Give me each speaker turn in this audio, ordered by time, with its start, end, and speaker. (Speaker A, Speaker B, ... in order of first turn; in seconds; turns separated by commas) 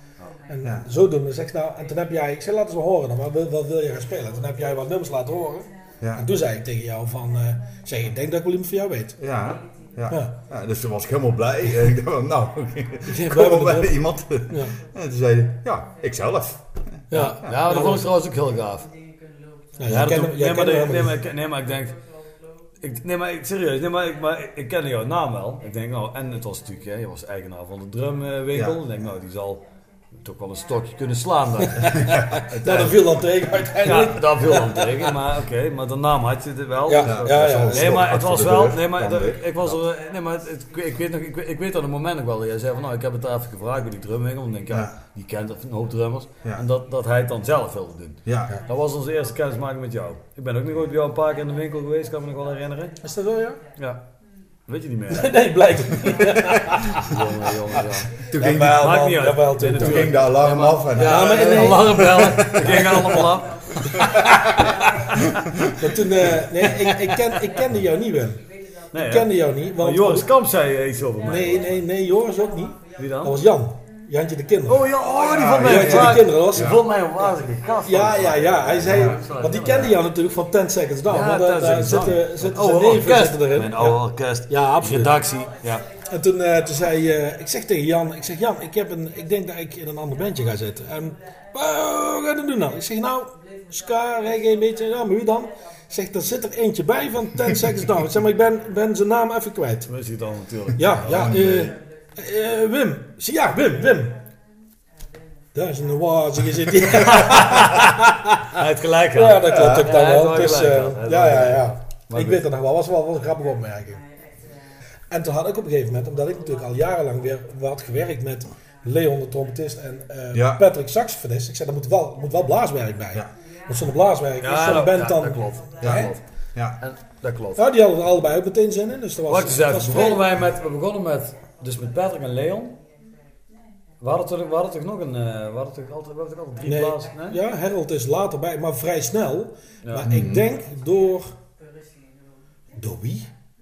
Speaker A: 0.5-9.2, Speaker B: 9.2-17.6, Speaker A: 10.1-10.3, Speaker A: 13.1-14.7, Speaker A: 17.1-18.1, Speaker C: 17.5-18.9, Speaker A: 19.8-21.2, Speaker C: 19.9-22.0, Speaker C: 22.8-29.6, Speaker B: 28.5-28.8, Speaker C: 30.2-31.9, Speaker A: 31.8-35.1, Speaker B: 31.8-33.0, Speaker C: 33.8-53.0, Speaker A: 36.9-38.0, Speaker B: 37.0-39.8, Speaker B: 48.2-48.5, Speaker A: 53.0-53.6, Speaker C: 53.8-54.0, Speaker C: 54.6-55.3, Speaker A: 55.1-57.1, Speaker B: 56.1-56.6, Speaker C: 57.0-65.2, Speaker B: 58.2-59.1, Speaker A: 58.2-60.2, Speaker B: 59.7-62.8, Speaker A: 61.0-63.3, Speaker B: 64.0-64.4, Speaker A: 65.8-70.3, Speaker B: 65.8-66.3, Speaker C: 66.8-67.4, Speaker C: 68.9-71.8, Speaker A: 71.2-74.8, Speaker C: 73.0-73.4, Speaker C: 74.7-80.0, Speaker B: 75.2-76.8, Speaker A: 75.5-76.8, Speaker A: 77.8-85.2, Speaker C: 81.1-85.8, Speaker A: 86.1-99.9, Speaker C: 99.8-101.2, Speaker A: 100.8-104.2, Speaker B: 101.1-101.7, Speaker A: 105.5-108.4, Speaker C: 107.0-107.9, Speaker C: 108.5-112.4, Speaker A: 109.1-114.0, Speaker B: 109.4-109.9, Speaker A: 115.1-126.2, Speaker B: 120.3-120.6, Speaker C: 124.4-126.2, Speaker B: 125.8-126.8, Speaker C: 126.8-127.6, Speaker A: 127.5-130.3, Speaker C: 129.3-132.8, Speaker C: 134.0-137.4, Speaker A: 136.6-141.3, Speaker C: 139.8-140.1, Speaker B: 140.0-140.4, Speaker A: 142.8-143.3